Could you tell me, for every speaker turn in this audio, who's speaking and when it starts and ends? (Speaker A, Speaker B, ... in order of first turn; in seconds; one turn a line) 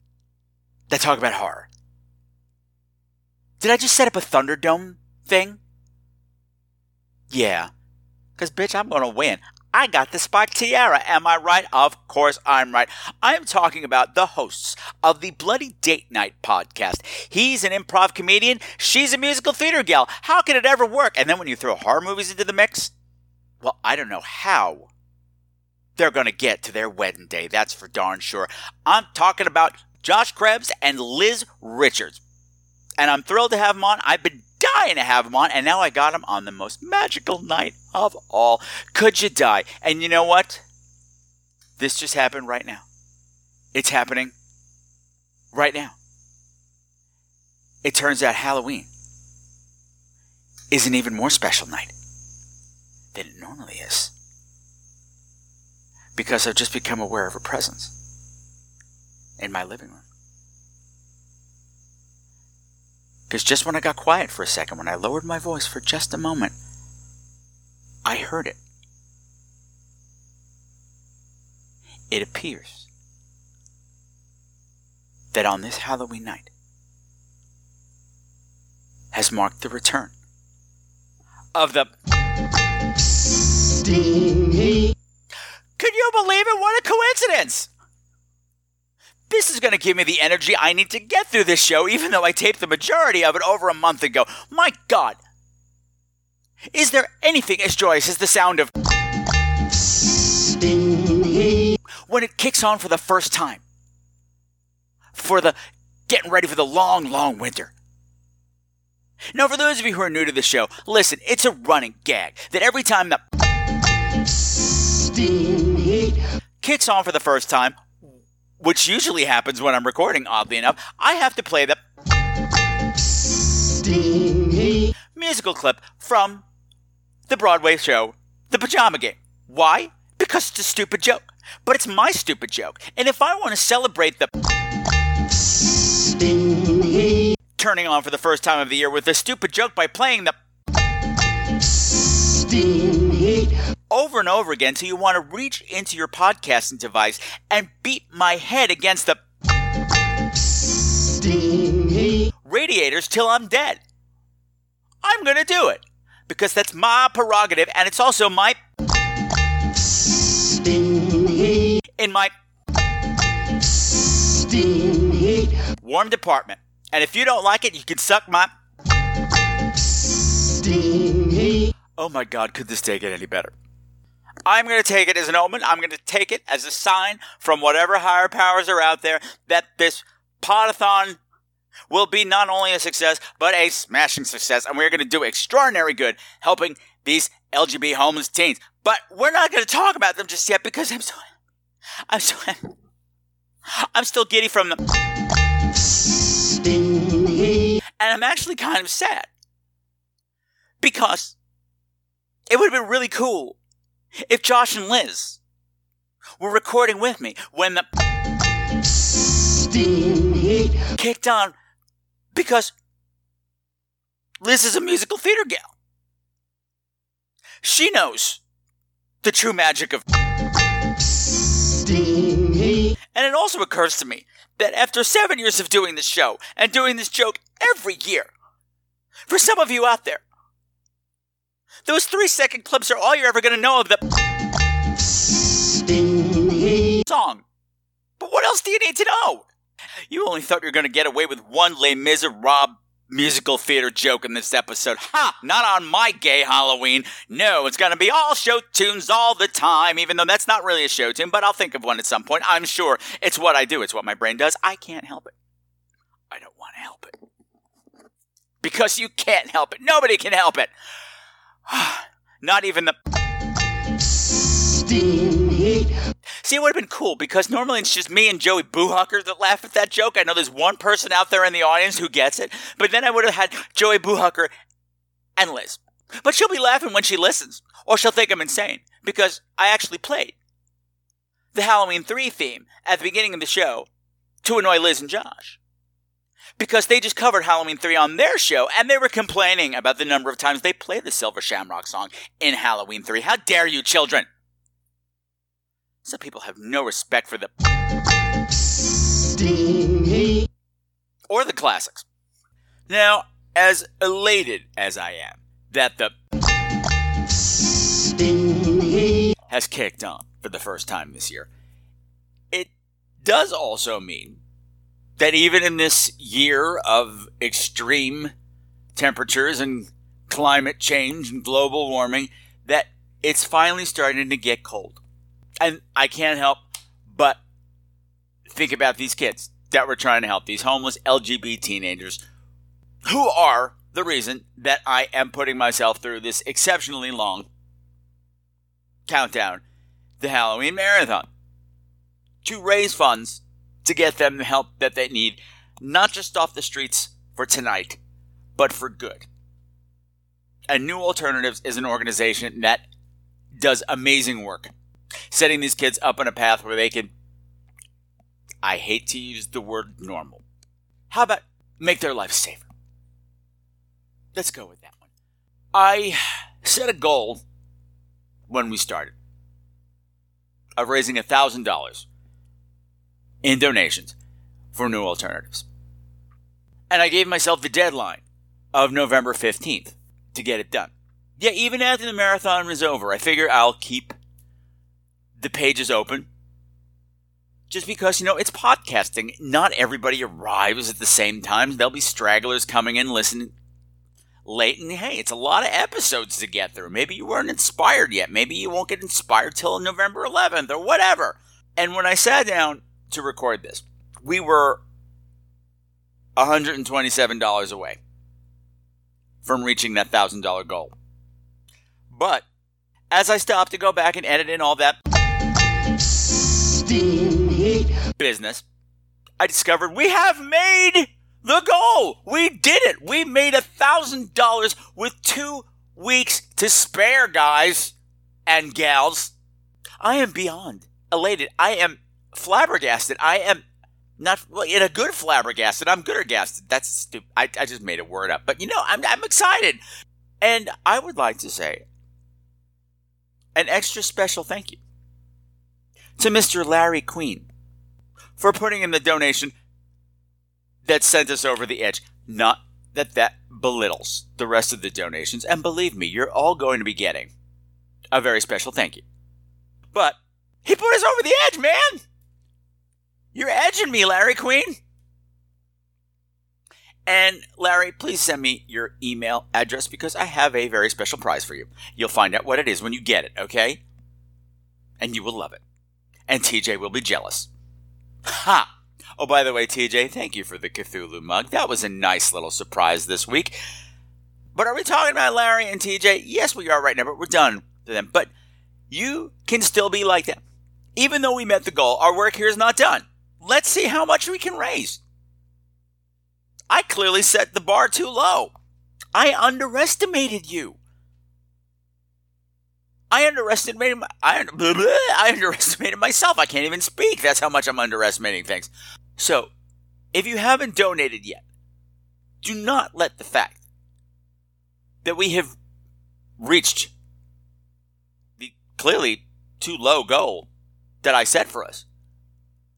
Speaker A: 0.9-1.7
Speaker A: 3.6-5.6
Speaker A: 7.3-7.7
Speaker A: 8.4-22.9
Speaker A: 23.6-24.9
Speaker A: 26.0-32.2
Speaker A: 33.0-40.6
Speaker A: 41.8-42.9
Speaker A: 43.7-44.3
Speaker A: 45.5-46.0
Speaker A: 47.8-48.9
Speaker A: 50.7-51.9
Speaker A: 53.1-54.1
Speaker A: 56.2-57.9
Speaker A: 59.4-60.0
Speaker A: 63.3-66.5
Speaker A: 68.0-68.6
Speaker A: 72.1-72.9
Speaker A: 75.3-76.5
Speaker A: 79.1-80.1
Speaker A: 81.5-81.9
Speaker A: 85.8-87.7
Speaker A: 89.3-95.2
Speaker A: 96.7-98.7
Speaker A: 102.1-103.6
Speaker A: 105.2-105.6
Speaker A: 106.1-107.7
Speaker A: 109.3-113.2
Speaker A: 116.6-118.0
Speaker A: 118.6-121.8
Speaker A: 125.2-126.4
Speaker A: 127.3-134.3
Speaker A: 137.6-140.3
Speaker A: 143.9-149.2
Speaker A: 152.4-153.8
Speaker A: 155.0-158.6
Speaker A: 162.0-162.3
Speaker A: 165.8-168.5
Speaker A: 172.0-173.5
Speaker A: 174.5-181.2
Speaker A: 181.9-191.2
Speaker A: 192.1-192.7
Speaker A: 193.9-194.8
Speaker A: 198.0-199.3
Speaker A: 200.8-201.3
Speaker A: 202.5-203.6
Speaker A: 204.3-205.4
Speaker A: 206.4-207.9
Speaker A: 211.0-211.5
Speaker A: 212.3-212.7
Speaker A: 214.4-215.7
Speaker A: 217.6-218.4
Speaker A: 219.2-220.0
Speaker A: 223.2-228.3
Speaker A: 229.3-230.2
Speaker A: 231.9-234.0
Speaker A: 237.0-237.4
Speaker A: 238.2-239.5
Speaker A: 240.1-255.3
Speaker A: 256.3-257.1
Speaker A: 258.6-260.7
Speaker A: 261.7-262.9
Speaker A: 266.4-274.5
Speaker A: 275.4-280.4
Speaker A: 281.6-283.9
Speaker A: 284.4-285.6
Speaker A: 286.6-294.3
Speaker A: 296.0-297.5
Speaker A: 301.3-302.1
Speaker A: 302.9-306.1
Speaker A: 309.5-311.5
Speaker A: 313.2-314.4
Speaker A: 315.2-318.3
Speaker A: 319.0-325.0
Speaker A: 325.6-327.4
Speaker A: 328.5-332.2
Speaker A: 333.1-337.5
Speaker A: 339.1-339.6
Speaker A: 340.2-341.3
Speaker A: 342.4-348.0
Speaker A: 348.6-349.3
Speaker A: 350.7-352.8
Speaker A: 353.6-354.7
Speaker A: 355.3-357.1
Speaker A: 358.6-360.4
Speaker A: 361.1-362.7
Speaker A: 364.4-365.0
Speaker A: 365.7-367.4
Speaker A: 368.5-369.1
Speaker A: 370.8-372.1
Speaker A: 373.4-374.1
Speaker A: 374.7-375.6
Speaker A: 376.9-378.2
Speaker A: 378.7-384.1
Speaker A: 385.4-386.3
Speaker A: 387.7-393.5
Speaker A: 394.5-404.8
Speaker A: 406.4-408.0
Speaker A: 409.4-410.9
Speaker A: 412.1-412.4
Speaker A: 413.1-415.0
Speaker A: 418.2-418.6
Speaker A: 419.4-427.9
Speaker A: 428.5-429.3
Speaker A: 430.0-433.6
Speaker A: 434.2-439.8
Speaker A: 440.4-441.8
Speaker A: 443.6-444.8
Speaker A: 446.2-447.5
Speaker A: 448.4-449.5
Speaker A: 450.9-457.3
Speaker A: 458.1-459.0
Speaker A: 459.9-462.0
Speaker A: 463.4-464.8
Speaker A: 467.1-473.8
Speaker A: 475.0-475.6
Speaker A: 476.3-477.5
Speaker A: 478.3-483.6
Speaker A: 484.6-488.3
Speaker A: 488.9-490.4
Speaker A: 491.0-495.0
Speaker A: 496.7-498.5
Speaker A: 499.1-500.8
Speaker A: 503.1-509.5
Speaker A: 510.1-511.4
Speaker A: 512.4-513.6
Speaker A: 515.0-515.5
Speaker A: 516.4-516.9
Speaker A: 518.4-520.5
Speaker A: 521.0-521.9